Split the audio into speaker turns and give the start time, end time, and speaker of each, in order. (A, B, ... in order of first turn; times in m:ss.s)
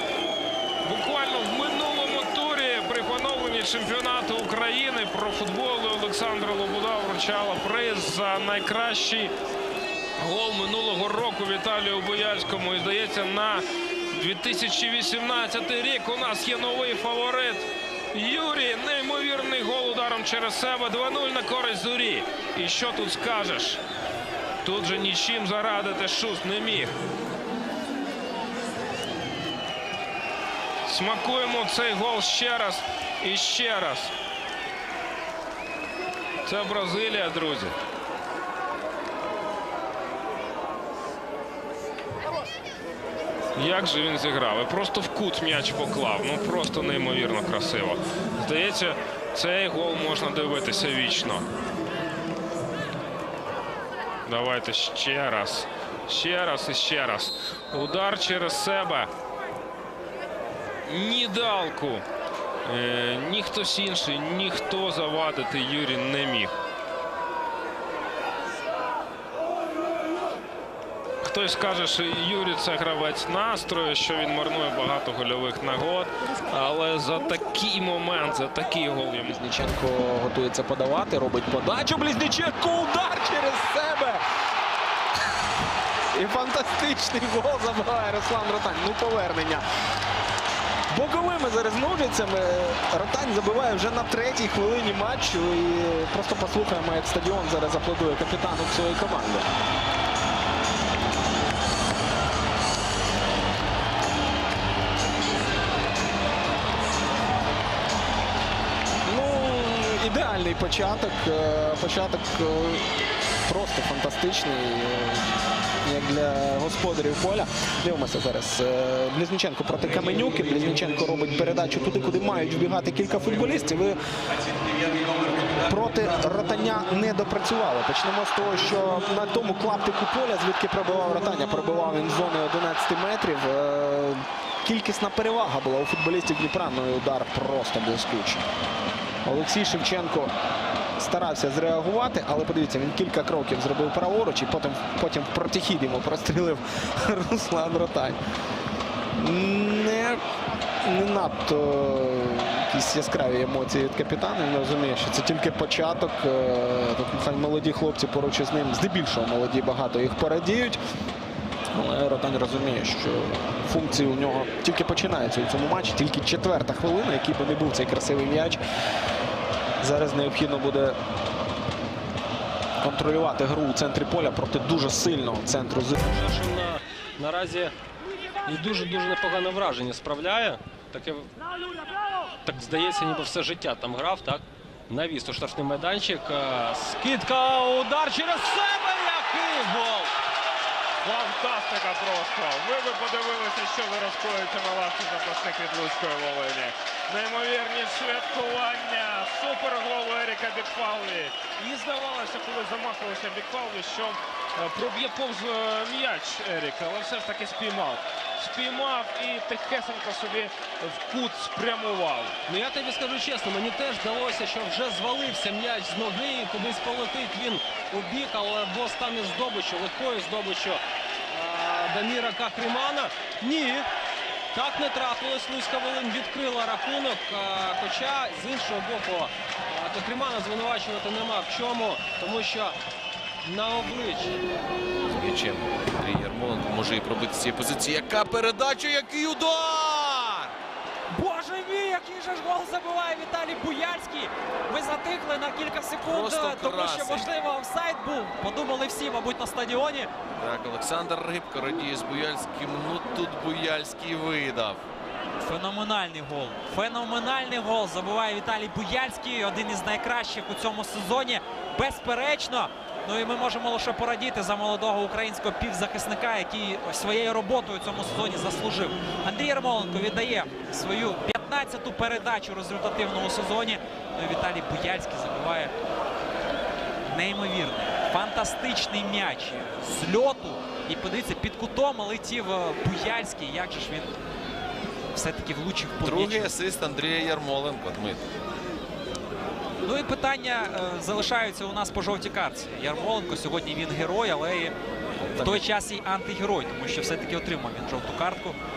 0:00.8-0:09.3 A
0:10.2-0:23.8 A
0:24.6-0:27.0 A
0:30.8-0:34.1 A
0:36.4-0:37.7 A
0:43.6-0:51.4 A
0:54.2-0:59.1 A
1:00.8-1:02.0 A
1:02.6-1:06.5 A
1:11.2-1:19.4 A
1:19.2-1:24.2 B
1:26.1-1:29.6 B
1:30.9-1:39.5 B
1:49.0-1:52.9 B
1:53.5-1:55.3 B
1:55.8-2:04.0 B
2:05.6-2:18.4 B
2:19.2-2:20.3 B
2:21.0-2:28.2 B
2:29.2-2:30.2 B
2:30.8-2:40.8 B
2:41.7-2:48.6 B
2:49.8-2:51.0 B
2:52.8-2:56.0 B
2:56.0-2:57.7 C
2:58.4-3:01.3 C
3:02.4-3:10.1 C
3:11.0-3:32.4 A
3:32.4-3:43.9 C
3:44.5-3:52.8 C
3:53.4-3:54.4 C
3:55.1-4:00.5 D
4:01.1-4:10.1 E
4:06.0-4:07.3 D
4:10.4-4:14.8 D
4:15.4-4:35.7 E
4:37.1-4:44.2 E
4:45.1-4:46.5 E
4:46.0-4:48.2 D
4:49.8-4:54.7 E
4:55.2-4:55.7 D
4:55.4-4:58.6 E